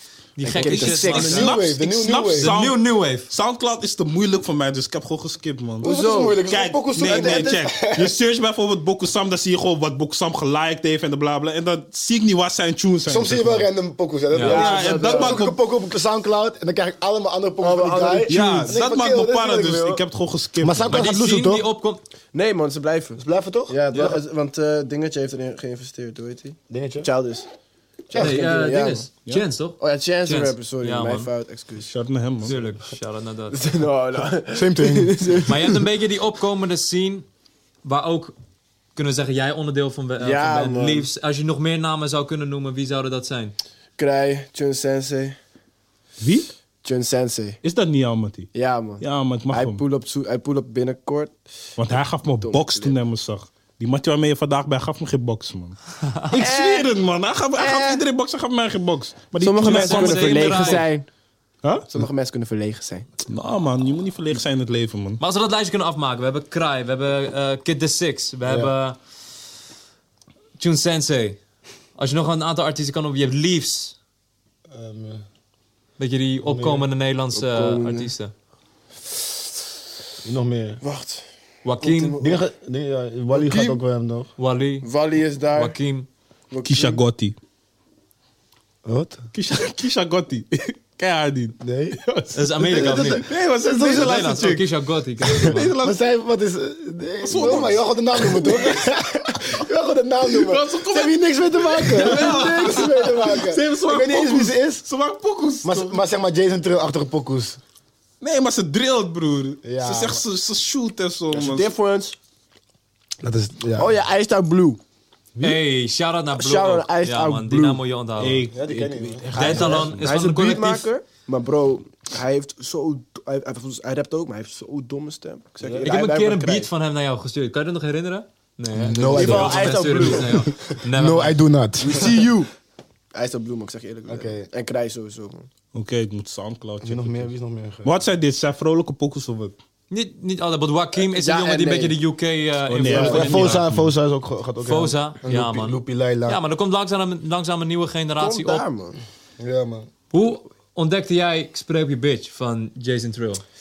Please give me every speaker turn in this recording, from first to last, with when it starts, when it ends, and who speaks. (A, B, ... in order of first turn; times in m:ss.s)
0:00.4-0:01.5 A
0:00.4-0:01.5 B
0:00.6-0:02.6 C
0:00.9-0:05.9 D
0:02.4-0:03.3 A
0:05.8-0:06.4 B
0:05.8-0:08.2 C
0:06.5-0:13.6 D
0:07.0-0:07.6 B
0:13.0-0:20.0 C
0:14.3-0:14.6 A
0:14.4-0:15.5 B
0:14.4-0:15.6 D
0:17.6-0:18.8 B
0:18.3-0:21.0 D
0:20.6-0:21.6 C
0:20.9-0:22.0 A
0:22.3-0:27.5 B
0:23.2-0:24.2 C
0:26.7-0:27.1 C
0:28.1-0:29.1 B
0:28.1-0:31.3 A
0:29.8-0:31.9 B
0:31.8-0:32.5 D
0:32.4-0:33.6 A
0:33.5-0:35.8 B
0:34.5-0:35.4 C
0:35.4-0:37.2 A
0:37.8-0:38.3 A
0:39.0-0:43.6 A
0:40.2-0:41.1 B
0:44.0-0:45.4 B
0:46.2-0:46.5 D
0:46.8-0:47.6 B
0:47.6-0:49.8 D
0:48.5-0:51.4 B
0:51.8-1:00.8 D
0:52.4-0:53.0 B
0:56.0-0:56.3 A
0:56.4-0:56.9 B
0:57.6-0:58.0 B
0:59.4-1:01.1 B
0:59.6-1:00.9 A
1:01.6-1:01.9 D
1:01.9-1:03.1 B
1:03.3-1:05.2 D
1:05.2-1:09.0 A
1:08.4-1:08.7 C
1:10.6-1:11.4 A
1:12.0-1:14.0 A
1:14.7-1:15.2 C
1:16.0-1:18.3 A
1:16.4-1:16.8 C
1:17.3-1:18.1 B
1:20.2-1:20.8 C
1:20.8-1:21.2 B
1:21.6-1:22.2 A
1:21.8-1:22.4 B
1:22.2-1:24.3 C
1:23.3-1:23.8 B
1:24.4-1:24.9 A
1:24.8-1:25.8 B
1:25.5-1:26.1 A
1:26.5-1:27.0 B
1:26.6-1:27.3 D
1:28.8-1:29.2 C
1:29.3-1:34.7 D
1:31.6-1:32.0 C
1:32.3-1:33.2 A
1:32.6-1:34.4 C
1:33.9-1:35.7 A
1:35.2-1:36.0 D
1:35.3-1:44.8 C
1:37.2-1:38.8 D
1:37.3-1:37.7 B
1:40.3-1:46.0 D
1:42.0-1:43.4 B
1:45.6-1:47.6 C
1:48.2-1:51.7 D
1:49.6-1:50.2 C
1:51.3-1:52.2 B
1:53.2-1:53.9 C
1:53.8-1:54.8 B
1:55.4-1:55.6 D
1:55.4-1:58.4 A
1:56.3-1:57.8 B
1:58.2-2:00.1 D
1:58.5-1:59.8 C
1:59.3-2:00.8 A
1:59.4-2:06.7 B
2:05.8-2:11.4 A
2:08.7-2:12.3 C
2:09.1-2:10.5 B
2:11.8-2:12.5 B
2:13.1-2:15.5 B
2:14.1-2:14.5 C
2:15.7-2:17.3 D
2:16.8-2:18.0 C
2:17.8-2:19.5 D
2:19.9-2:23.7 A
2:21.0-2:22.0 B
2:22.7-2:23.9 D
2:22.8-2:26.4 C
2:24.6-2:28.6 A
2:28.2-2:29.0 B
2:29.4-2:29.9 C
2:30.1-2:33.4 A